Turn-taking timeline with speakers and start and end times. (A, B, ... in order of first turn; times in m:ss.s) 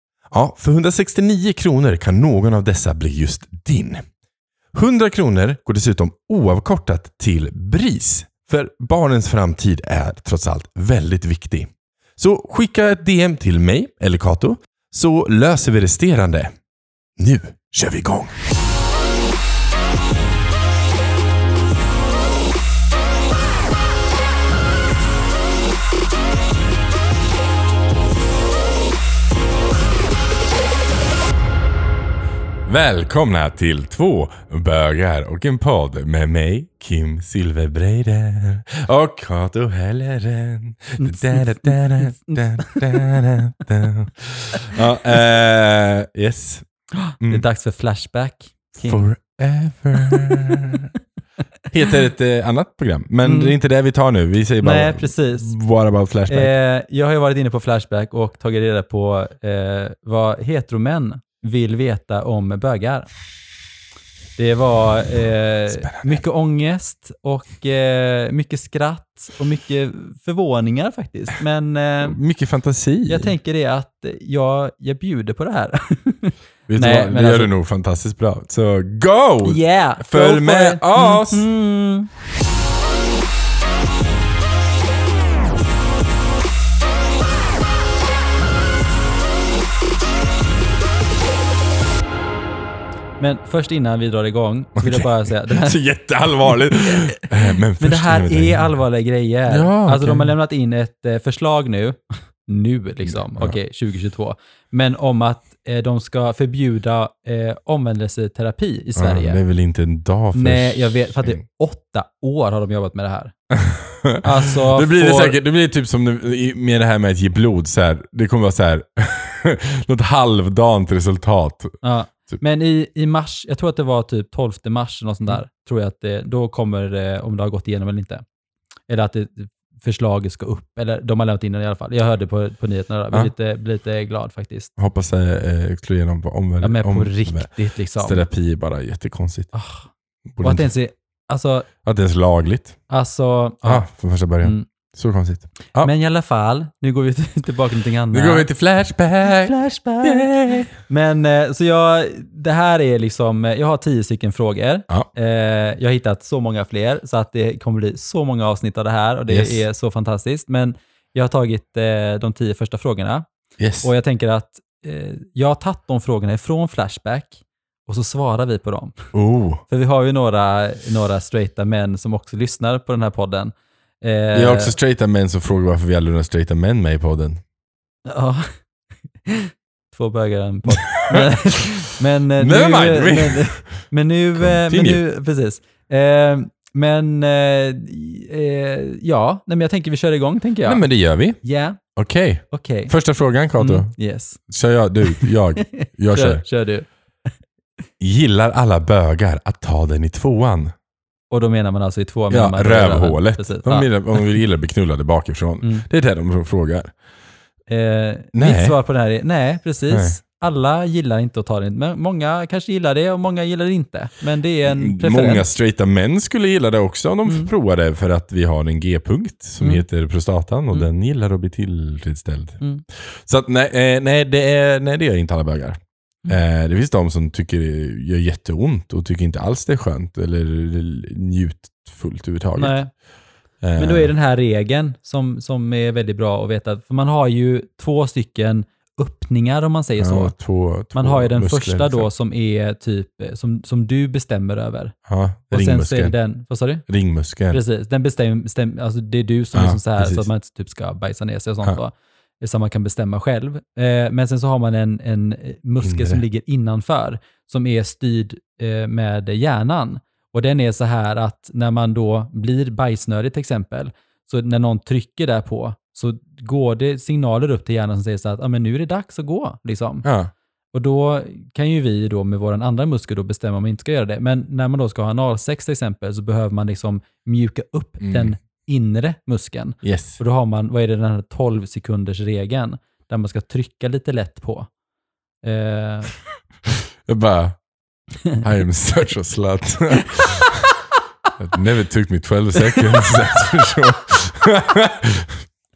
0:00.3-0:04.0 A
0:04.7-0:16.5 A
0:17.2-0:18.4 A
0:32.6-0:46.6 A
0:41.0-0:43.2 B
0:47.0-0:49.1 B
0:47.2-0:47.4 A
0:48.8-0:50.9 A
0:50.0-0:51.0 B
0:51.7-0:56.5 A
0:53.2-0:53.6 B
0:54.6-0:55.5 B
0:56.3-1:03.1 B
1:04.4-1:12.2 B
1:05.7-1:06.2 A
1:12.0-1:13.3 A
1:13.1-1:17.5 B
1:16.7-1:21.5 A
1:19.4-1:22.1 B
1:33.2-1:35.8 B
1:34.8-1:38.7 A
1:36.5-1:49.4 B
1:39.5-1:40.3 A
1:43.1-1:43.5 A
1:49.0-1:51.4 A
1:50.3-1:53.3 B
1:53.5-2:02.4 A
1:54.2-1:55.4 B
2:01.8-2:08.2 B
2:08.9-2:14.7 B
2:14.8-2:19.5 A
2:16.6-2:18.2 B
2:19.5-2:19.9 B
2:20.3-2:20.7 A
2:20.4-2:21.7 B
2:21.8-2:22.8 A
2:22.9-2:23.9 B
2:23.6-2:25.9 A
2:24.4-2:24.7 B
2:25.8-2:28.5 B
2:28.1-2:30.7 A
2:29.2-2:43.3 B
2:39.3-2:39.6 A
2:43.6-2:43.9 A
2:43.8-2:49.1 B
2:49.1-2:49.6 A
2:49.7-2:54.7 B
2:54.3-2:57.4 A
2:58.1-2:58.5 B
2:59.2-3:10.8 B
3:00.7-3:01.7 A
3:02.4-3:03.7 A
3:04.3-3:05.0 A
3:10.6-3:11.4 A
3:11.4-3:11.8 B
3:12.0-3:16.4 A
3:12.5-3:12.9 B
3:13.6-3:14.4 B
3:15.1-3:16.9 B
3:18.0-3:20.7 A
3:21.3-3:24.2 B
3:22.3-3:26.9 A
3:27.7-3:35.4 B
3:28.3-3:28.8 A
3:29.9-3:30.2 A
3:34.6-3:52.8 A
3:52.6-3:52.9 B
3:53.6-3:54.1 A
3:53.8-4:00.3 B
4:00.0-4:02.1 A
4:00.9-4:04.9 B
4:05.1-4:06.1 A
4:05.5-4:06.8 B
4:06.9-4:07.6 A
4:07.5-4:30.0 B
4:09.5-4:10.2 A
4:15.8-4:16.2 A
4:30.0-4:30.3 A
4:30.7-4:44.7 B
4:38.0-4:38.3 A
4:39.8-4:40.2 A
4:45.4-4:46.2 B
4:47.0-4:47.6 A
4:48.4-4:50.7 A
4:50.0-4:50.5 B
4:51.4-4:55.4 A